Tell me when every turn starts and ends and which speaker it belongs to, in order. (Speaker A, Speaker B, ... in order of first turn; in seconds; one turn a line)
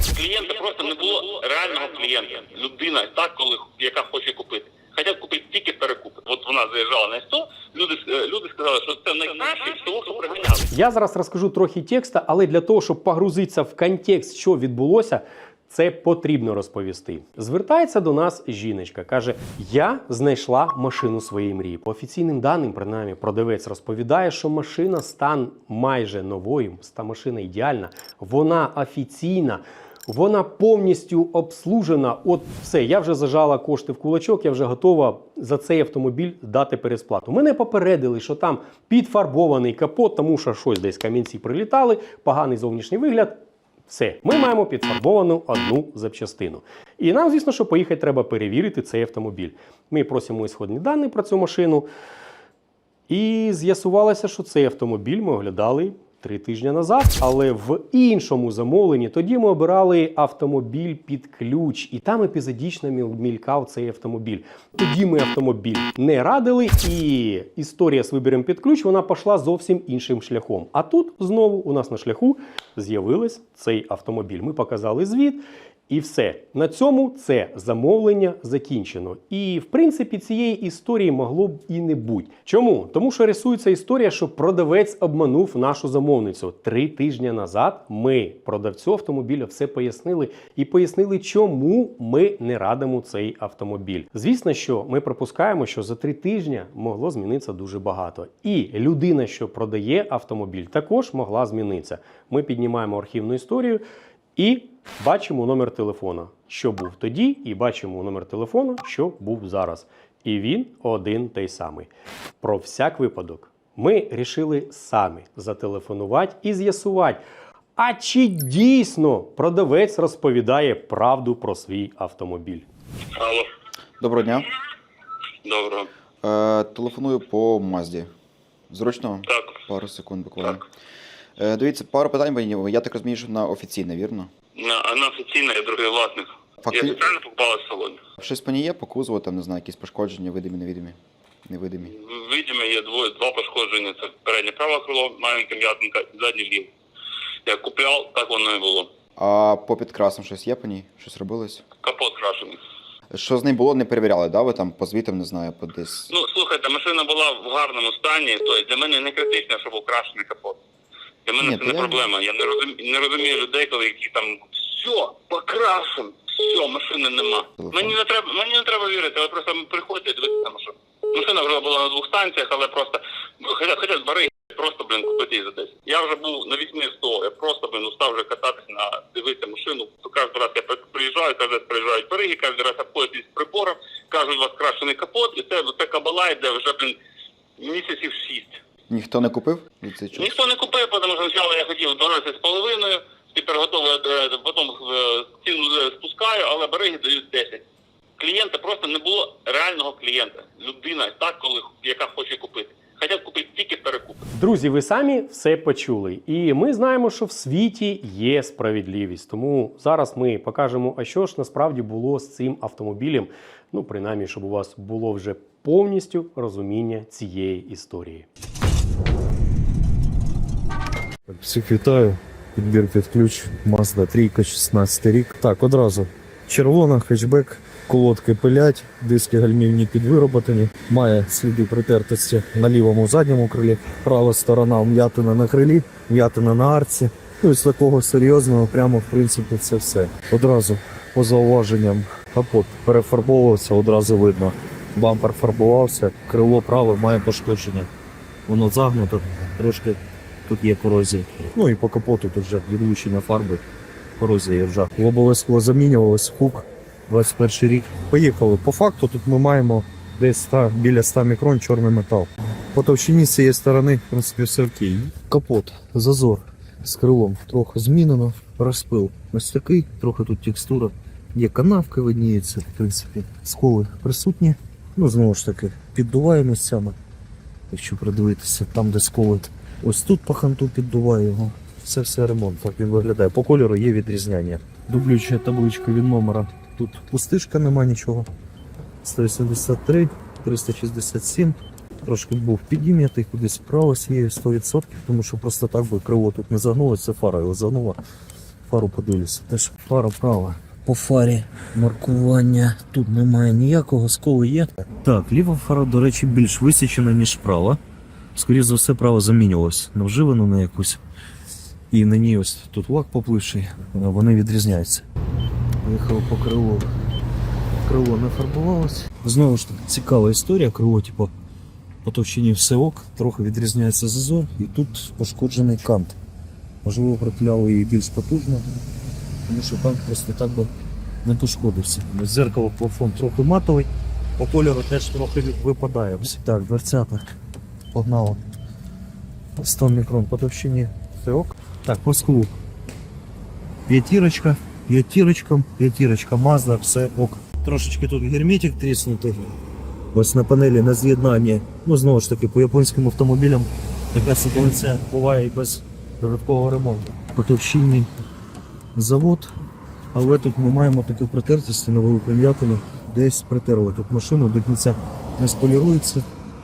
Speaker A: 0.1-10.7
Speaker B: 10.7-51.9
Speaker B: 53.1-103.8
Speaker B: 104.3-111.9
Speaker B: 112.4-117.2
Speaker B: 117.8-122.7
Speaker A: 123.1-123.5
Speaker C: 124.0-124.5
Speaker A: 125.4-125.9
Speaker C: 126.2-128.1
Speaker C: 128.7-130.7
Speaker A: 129.3-129.6
Speaker C: 131.4-134.3
Speaker A: 134.5-138.0
Speaker C: 136.6-137.1
Speaker C: 138.2-141.9
Speaker A: 141.8-146.7
Speaker A: 147.4-148.9
Speaker C: 149.2-151.6
Speaker A: 151.8-152.6
Speaker C: 153.1-156.1
Speaker A: 156.1-160.6
Speaker A: 161.2-186.9
Speaker C: 161.4-162.1
Speaker C: 167.6-167.9
Speaker A: 187.6-188.6
Speaker C: 188.9-190.4
Speaker A: 190.2-197.6
Speaker A: 198.2-204.2
Speaker B: 204.3-218.3
Speaker D: 221.3-247.9
Speaker D: 248.5-253.6
Speaker D: 254.2-277.0
Speaker D: 277.7-288.3
Speaker D: 289.0-298.0
Speaker D: 298.7-307.8
Speaker D: 308.3-311.0
Speaker D: 311.9-315.1
Speaker D: 315.8-316.9
Speaker D: 317.8-321.3
Speaker D: 322.0-326.2
Speaker D: 326.8-328.7
Speaker D: 329.5-330.7
Speaker D: 331.2-337.2
Speaker D: 337.9-338.4
Speaker D: 339.6-342.5
Speaker D: 343.9-349.5
Speaker D: 350.1-358.1
Speaker D: 358.9-359.5
Speaker D: 360.1-366.2